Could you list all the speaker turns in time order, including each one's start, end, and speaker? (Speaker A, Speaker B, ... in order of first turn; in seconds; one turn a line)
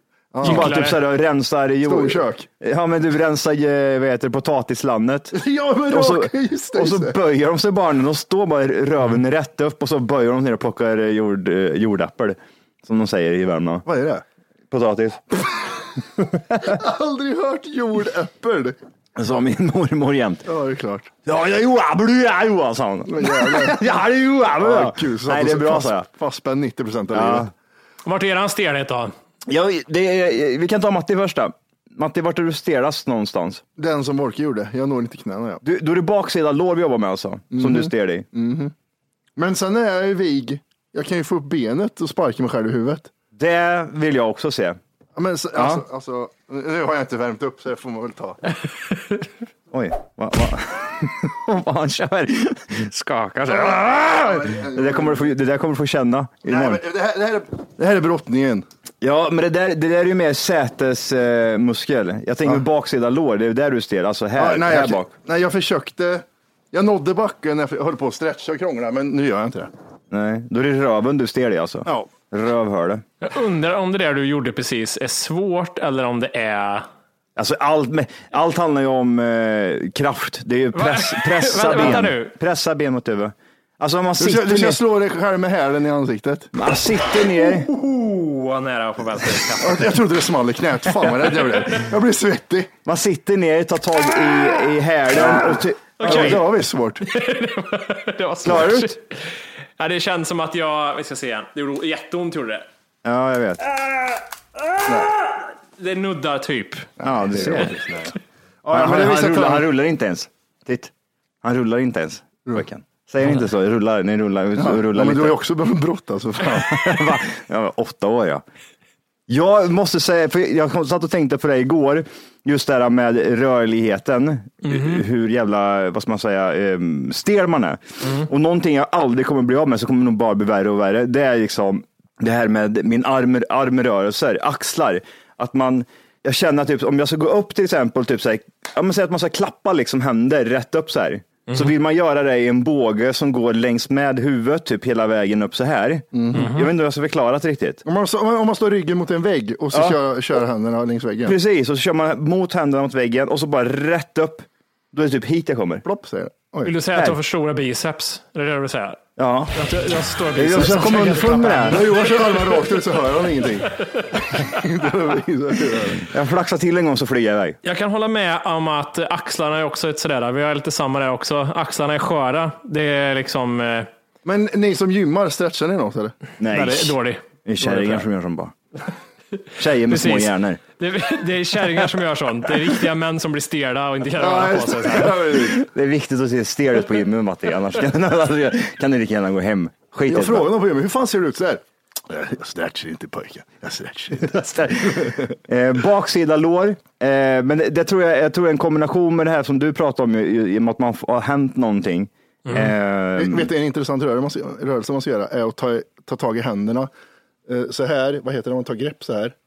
Speaker A: 0.3-0.7
Speaker B: 0.4-13.8
Speaker C: 0.4-1.0
Speaker A: 1.8-2.5
Speaker A: 5.3-7.2
Speaker A: 13.9-14.2
Speaker B: 14.7-15.4
Speaker A: 16.6-18.8
Speaker B: 19.2-20.5
Speaker A: 20.5-21.1
Speaker B: 21.3-26.1
Speaker A: 23.1-24.0
Speaker A: 24.6-27.5
Speaker B: 27.1-27.5
Speaker C: 28.1-29.1
Speaker B: 29.5-33.6
Speaker A: 33.8-35.6
Speaker B: 35.6-38.3
Speaker A: 37.5-38.7
Speaker A: 39.4-43.1
Speaker B: 43.4-44.8
Speaker A: 45.2-48.4
Speaker B: 45.5-45.8
Speaker B: 49.7-56.8
Speaker A: 53.5-55.3
Speaker A: 56.5-58.7
Speaker B: 59.0-65.1
Speaker A: 64.4-69.7
Speaker B: 70.1-73.0
Speaker C: 73.2-76.9
Speaker B: 77.4-84.8
Speaker C: 80.7-82.3
Speaker A: 84.2-86.5
Speaker B: 86.5-87.7
Speaker C: 87.5-90.0
Speaker A: 89.6-92.7
Speaker B: 92.9-96.5
Speaker A: 95.2-97.0
Speaker C: 96.0-99.2
Speaker B: 98.4-99.0
Speaker C: 99.8-102.7
Speaker B: 103.0-103.7
Speaker A: 104.9-105.1
Speaker C: 105.8-106.9
Speaker A: 107.0-109.7
Speaker B: 107.0-107.8
Speaker B: 108.7-110.9
Speaker B: 111.4-115.4
Speaker A: 114.6-117.0
Speaker B: 116.6-118.4
Speaker B: 119.3-147.8
Speaker C: 124.7-125.0
Speaker C: 141.5-141.7
Speaker A: 146.1-146.6
Speaker C: 146.3-146.7
Speaker A: 147.8-151.4
Speaker B: 149.7-150.0
Speaker B: 151.2-155.8
Speaker A: 155.8-156.7
Speaker C: 156.6-159.0
Speaker B: 159.2-159.6
Speaker C: 159.6-162.7
Speaker B: 160.3-161.8
Speaker A: 161.6-166.1
Speaker B: 166.1-167.6
Speaker C: 167.6-173.9
Speaker A: 174.2-176.2
Speaker B: 176.4-178.5
Speaker C: 176.5-178.0
Speaker B: 179.6-180.6
Speaker C: 179.9-185.3
Speaker A: 184.2-185.6
Speaker B: 185.3-190.5
Speaker A: 190.1-195.4
Speaker B: 194.2-203.5
Speaker C: 202.5-202.7
Speaker A: 203.2-206.9
Speaker A: 207.5-209.3